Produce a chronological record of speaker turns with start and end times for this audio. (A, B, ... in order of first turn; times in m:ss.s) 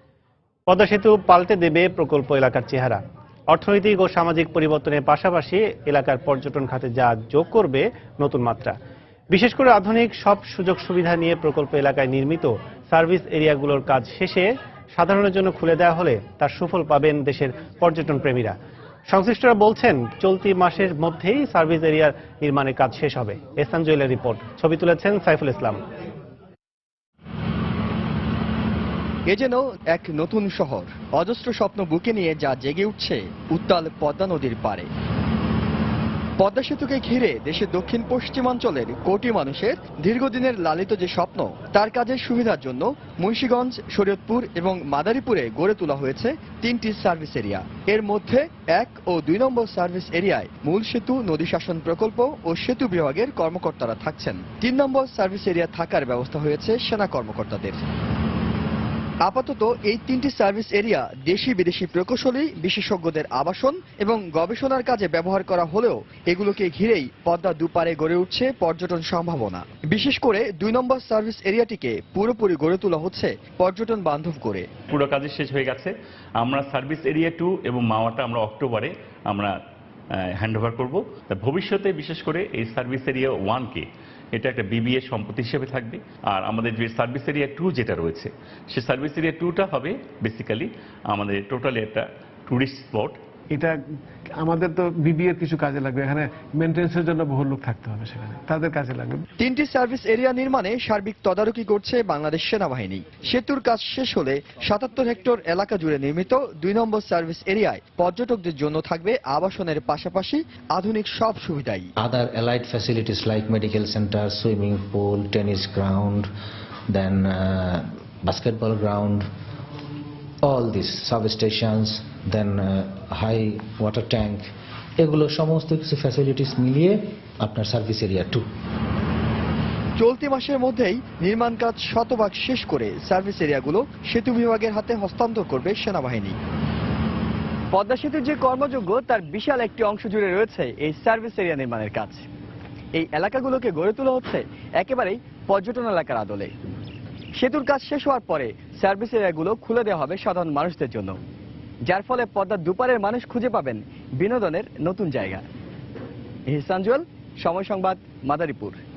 0:00.7-0:08.8 A
0:09.3-0:25.8 A
0:29.3-0:34.9 B
0:36.4-0:57.8 B
0:59.2-1:14.7 B
1:14.9-1:19.5 C
1:20.4-1:33.2 C
1:33.5-1:33.8 D
1:34.4-1:39.2 D
1:39.4-1:51.9 B
1:52.0-1:56.3 E
1:56.9-1:59.3 E
2:00.4-2:08.4 E
2:10.0-2:16.4 B
2:17.7-2:22.3 B
2:22.9-2:26.5 B
2:27.4-2:31.2 B
2:31.9-2:35.4 B
2:36.5-2:38.8 B